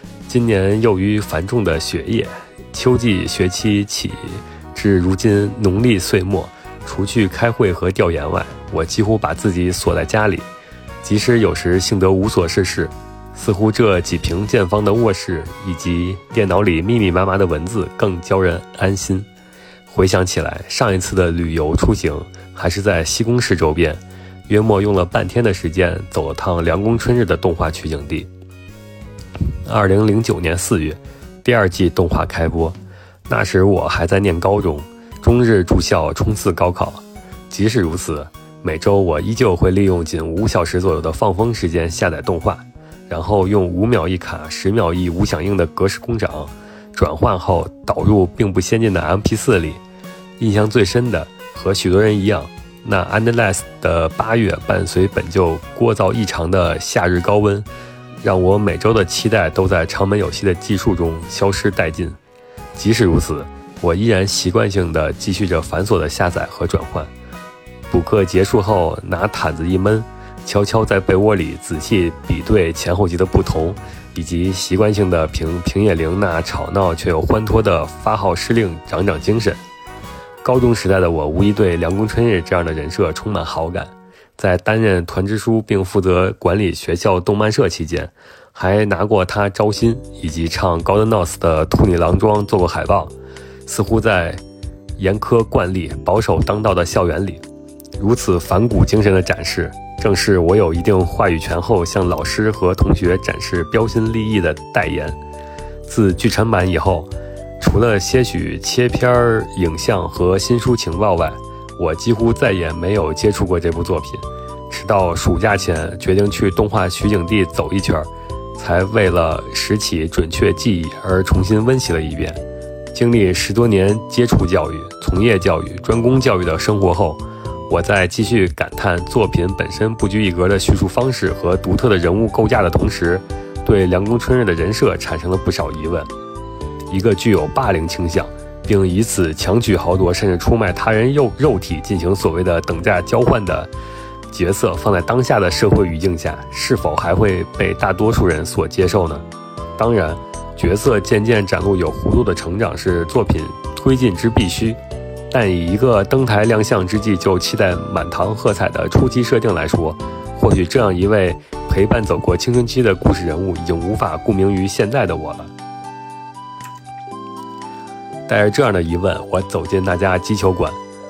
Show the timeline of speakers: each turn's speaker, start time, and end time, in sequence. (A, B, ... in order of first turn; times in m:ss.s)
0:00.3-0:10.5 A
0:11.0-0:19.3 A
0:19.9-0:28.3 A
0:29.6-0:49.8 A
0:50.4-0:57.7 A
0:58.2-1:02.2 A
1:02.8-1:07.1 A
1:07.9-1:19.6 A
1:20.4-1:33.1 A
1:33.7-1:34.4 A
1:35.0-1:37.4 A
1:38.0-1:45.2 A
1:45.9-2:02.4 A
2:02.9-2:16.1 A
2:16.9-2:23.7 A
2:24.3-2:29.2 A
2:29.8-2:34.8 A
2:35.3-2:45.5 A
2:48.3-2:50.8 A